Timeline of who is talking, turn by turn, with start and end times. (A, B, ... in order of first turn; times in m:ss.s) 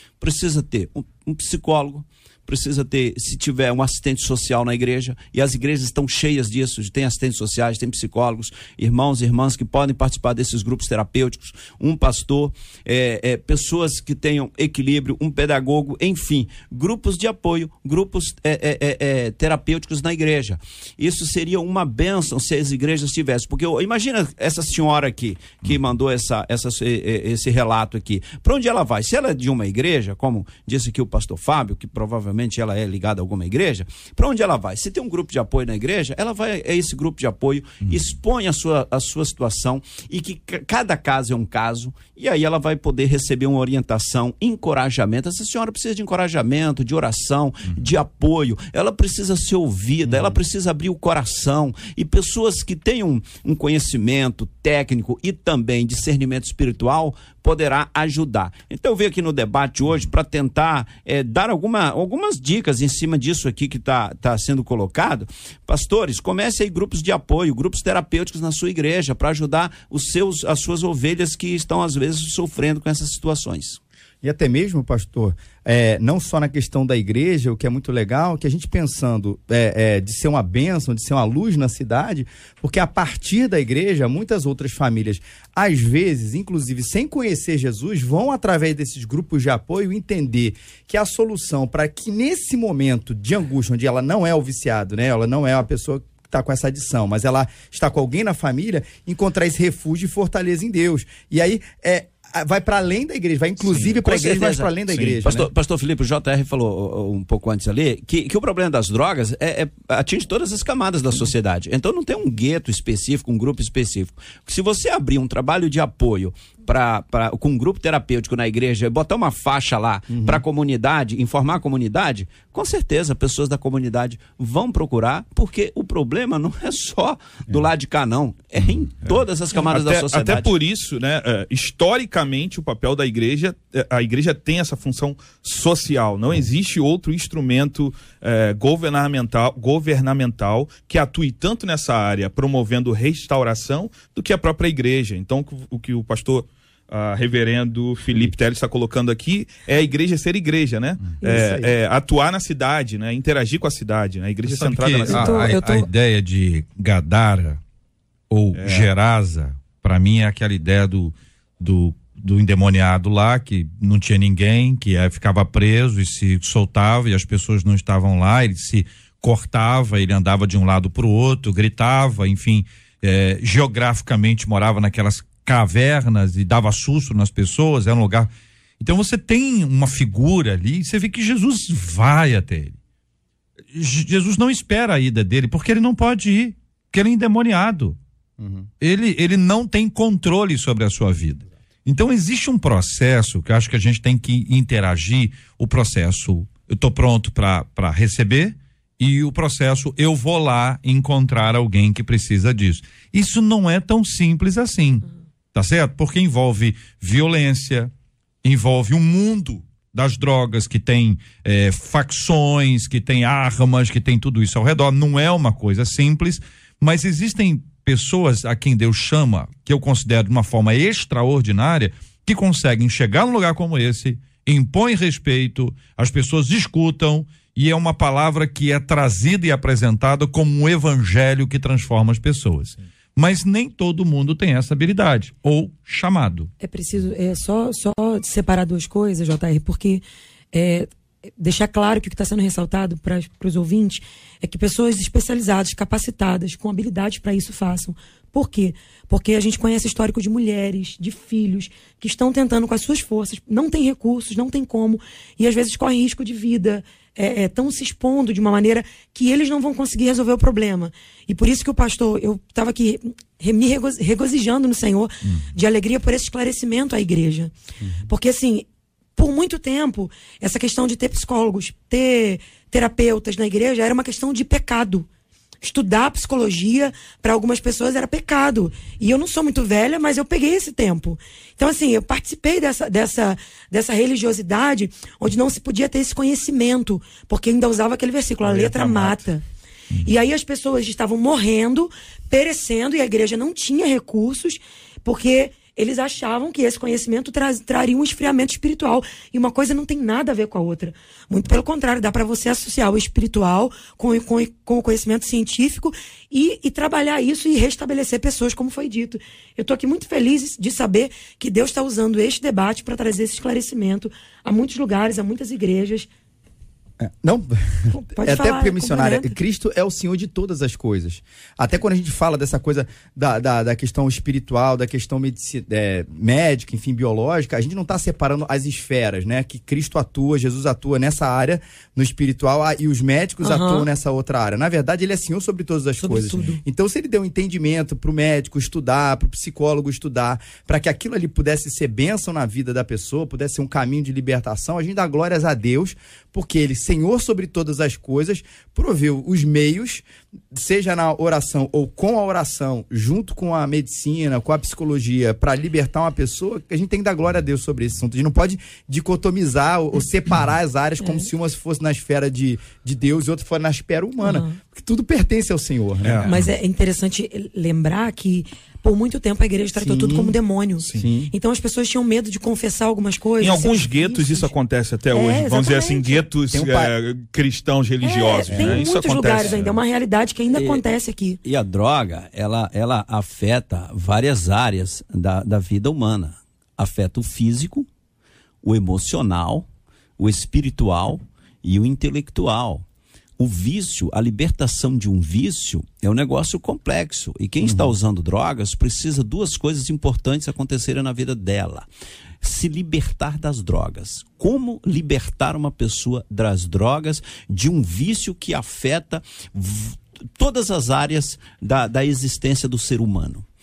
0:00.2-1:13.8 A
0:37.8-0:38.1 B
0:50.1-0:50.4 C
1:14.2-1:45.5 C
1:43.6-2:10.5 A
2:00.1-2:00.4 C
2:09.6-2:35.6 D
2:34.4-2:37.6 B
2:35.1-2:35.9 E
2:38.3-3:02.8 B
2:38.5-2:38.9 D
3:03.7-3:08.0 B
3:08.4-3:08.7 C
3:08.8-3:27.9 B
3:28.4-3:56.5 B
3:56.6-4:27.5 E
4:28.1-4:35.1 E
4:35.6-4:49.4 E
4:48.4-4:49.3 D
4:50.0-5:16.1 E
5:17.0-6:06.3 C
5:17.9-5:19.4 E
5:33.4-5:33.9 E
5:36.0-5:36.6 E
6:01.0-6:01.3 E
6:04.2-6:04.6 E
6:06.0-6:06.5 D
6:06.2-6:14.5 E
6:09.8-6:10.4 C
6:10.8-6:11.0 D
6:10.9-6:11.3 C
6:13.4-6:19.8 D
6:15.1-6:16.3 E
6:16.5-6:16.9 C
6:18.0-6:21.4 E
6:20.5-6:20.8 A
6:21.4-6:27.9 A
6:28.6-6:29.7 A
6:30.2-6:32.8 A
6:33.4-6:41.8 A
6:37.6-6:37.9 C
6:42.4-6:53.4 A